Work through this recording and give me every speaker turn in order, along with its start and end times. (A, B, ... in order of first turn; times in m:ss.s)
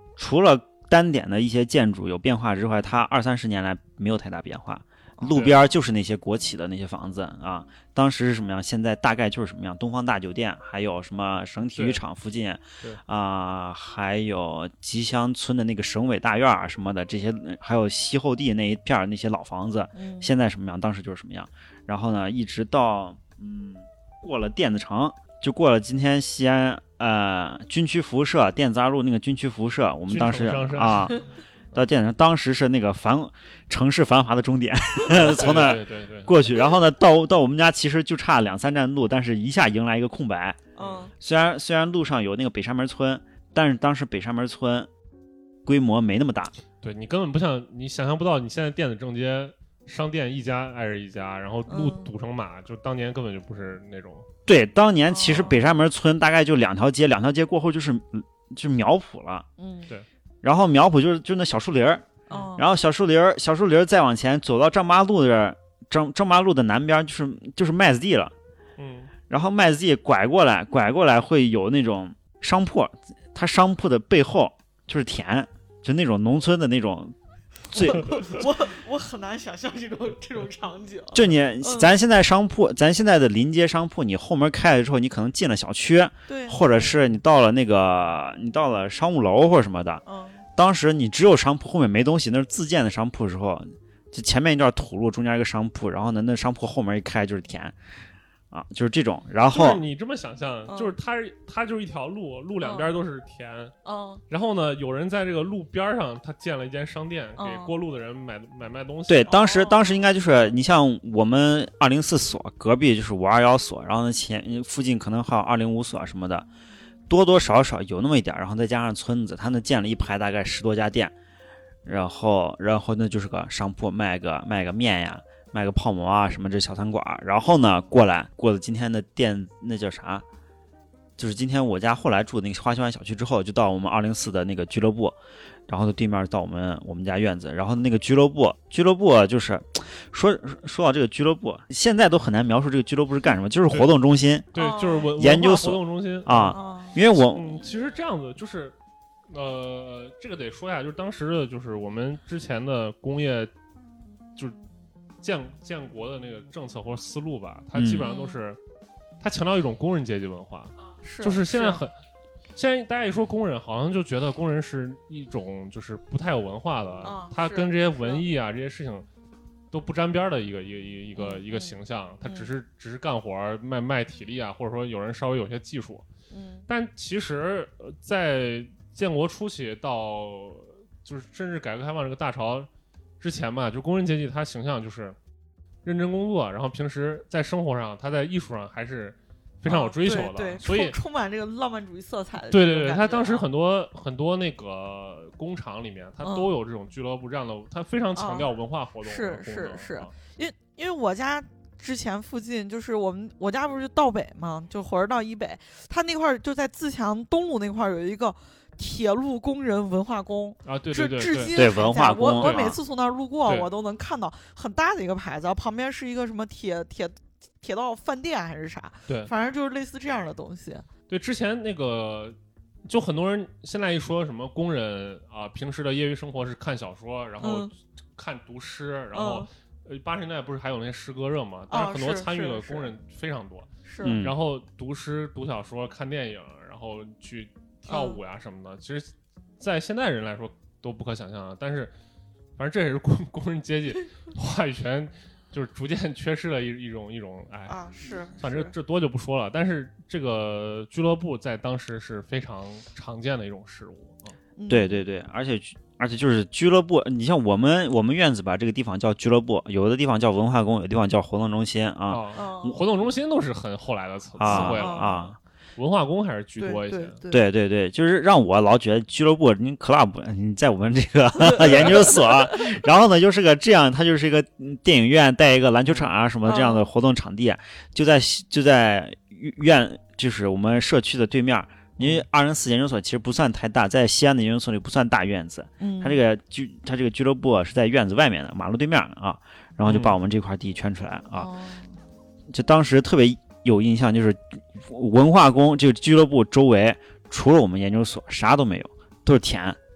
0:00.2-0:31.2 A
0:05.2-0:05.6 B
0:05.3-0:05.6 C
0:11.7-0:12.0 C
0:20.0-0:20.3 B
0:30.1-0:31.2 C
0:31.7-0:40.6 A
0:35.1-0:36.3 C
0:40.8-0:41.1 B
0:40.8-0:41.1 C
0:41.2-0:44.9 A
0:45.6-0:46.5 A
0:46.8-0:54.3 C
0:51.7-0:52.1 B
0:54.5-0:59.5 A
0:55.1-0:55.6 B
0:59.6-0:59.9 B
1:00.4-1:08.3 A
1:02.3-1:02.7 B
1:08.8-1:09.1 C
1:09.3-1:17.2 A
1:17.7-1:18.3 A
1:17.9-1:21.9 B
1:18.0-1:18.4 C
1:21.1-1:30.0 A
1:26.3-1:26.9 B
1:30.1-1:30.4 B
1:30.6-1:37.8 A
1:38.5-1:39.8 A
1:39.5-1:43.7 C
1:40.7-1:40.9 B
1:42.6-1:42.9 B
1:43.8-1:44.2 B
1:44.3-1:49.4 C
1:47.4-1:47.7 B
1:49.1-1:56.5 A
1:49.3-1:50.1 B
1:57.1-2:01.1 A
2:01.9-2:10.2 A
2:11.2-2:15.2 A
2:15.7-2:24.5 A
2:24.5-2:26.6 C
2:24.6-2:25.1 B
2:25.2-2:27.6 A
2:26.5-2:27.0 B
2:27.1-2:28.8 C
2:29.3-2:33.5 C
2:35.2-2:38.6 C
2:37.8-2:38.1 A
2:38.0-2:38.4 B
2:39.2-2:41.9 C
2:41.0-2:41.8 B
2:42.6-2:49.0 C
2:47.0-2:48.3 B
2:49.7-2:56.1 C
2:51.2-2:52.5 B
2:56.3-2:56.7 B
2:56.7-3:02.7 C
3:03.2-3:05.2 C
3:05.8-3:11.0 C
3:09.7-3:13.5 B
3:12.5-3:20.1 C
3:16.2-3:16.5 B
3:18.2-3:40.9 B
3:30.6-3:31.6 C
3:31.5-3:32.8 A
3:32.4-3:32.7 C
3:41.1-4:01.9 C
3:47.4-3:47.7 B
3:49.1-3:49.5 B
3:51.7-3:52.9 B
3:53.8-3:54.2 B
3:54.0-3:54.4 A
3:57.9-3:58.2 B
4:02.6-4:07.8 C
4:07.7-4:08.7 B
4:08.4-4:14.4 C
4:14.6-4:15.0 B
4:14.7-4:22.8 A
4:22.1-4:25.2 C
4:22.4-4:22.8 B
4:24.4-4:25.4 A
4:24.4-4:25.3 B
4:25.8-4:27.2 C
4:26.6-4:27.4 B
4:27.3-4:51.5 A
4:31.4-4:32.8 B
4:36.4-4:36.9 B
4:42.0-4:42.2 C
4:45.8-4:46.2 B
4:49.8-4:50.1 C
4:51.3-4:52.0 B
4:52.5-4:59.8 A